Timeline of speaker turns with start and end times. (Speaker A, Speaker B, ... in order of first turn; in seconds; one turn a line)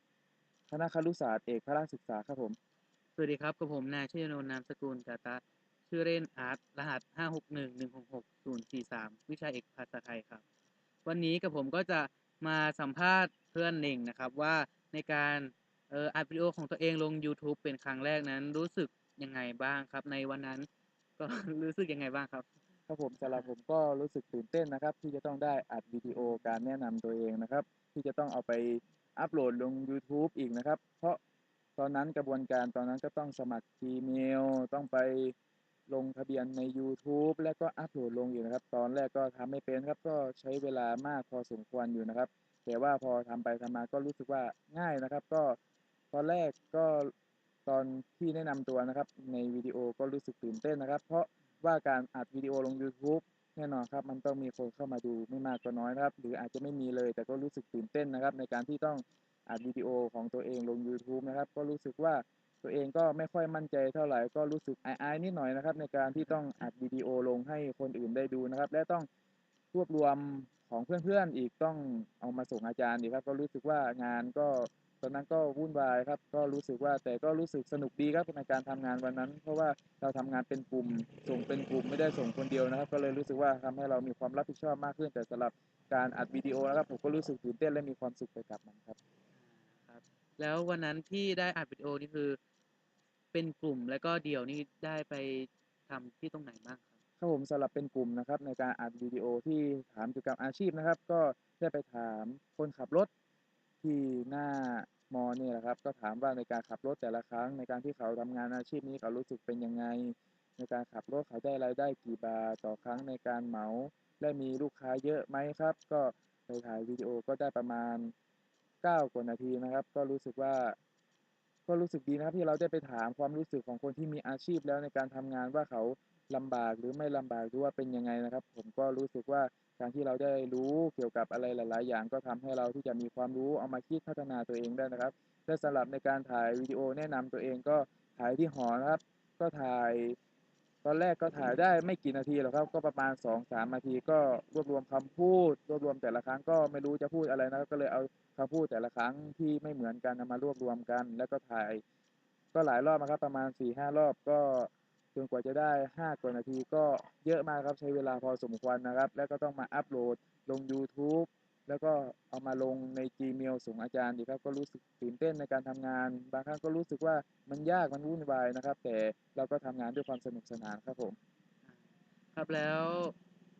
Speaker A: 0.7-2.5
Speaker B: 3.2-10.4
Speaker B: 11.0-20.7
Speaker B: 21.2-22.5
Speaker A: 22.9-31.2
Speaker B: 23.2-23.5
Speaker A: 31.8-35.3
Speaker A: 35.9-45.6
Speaker A: 46.1-47.1
Speaker A: 47.6-69.1
Speaker A: 69.7-89.0
Speaker B: 89.8-92.4
Speaker B: 93.3-96.9
Speaker A: 97.2-103.1
Speaker A: 103.8-118.1
Speaker A: 118.8-120.8
Speaker A: 121.7-140.2
Speaker A: 140.8-151.8
Speaker A: 152.5-171.2
Speaker B: 172.3-173.1